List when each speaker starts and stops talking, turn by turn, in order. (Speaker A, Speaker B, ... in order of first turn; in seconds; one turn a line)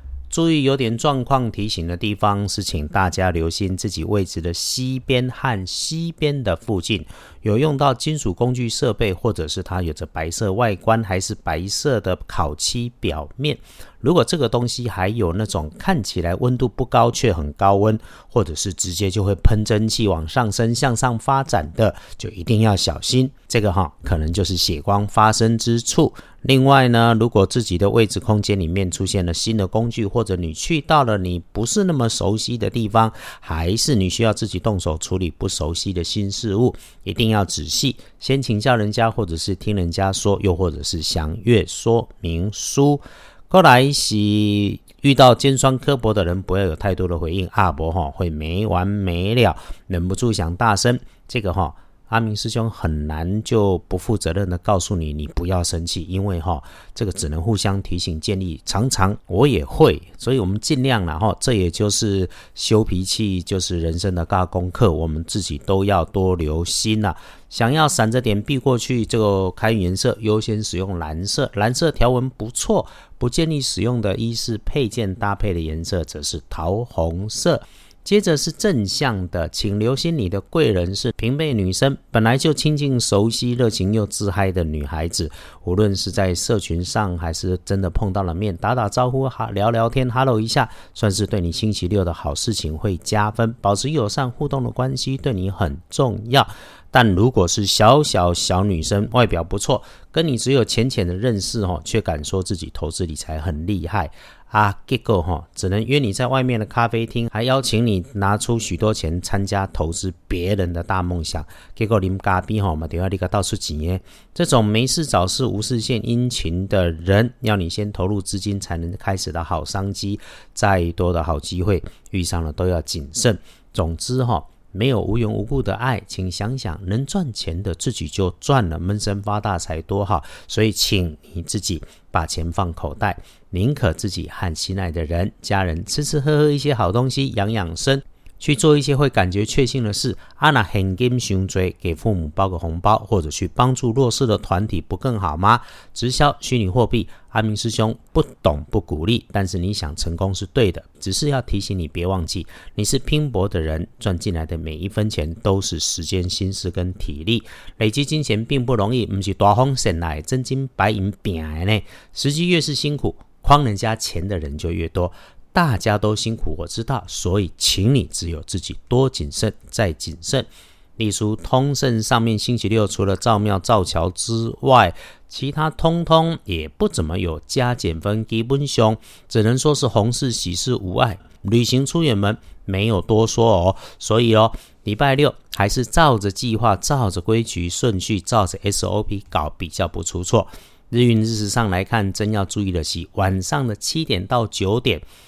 Speaker A: 0.3-195.0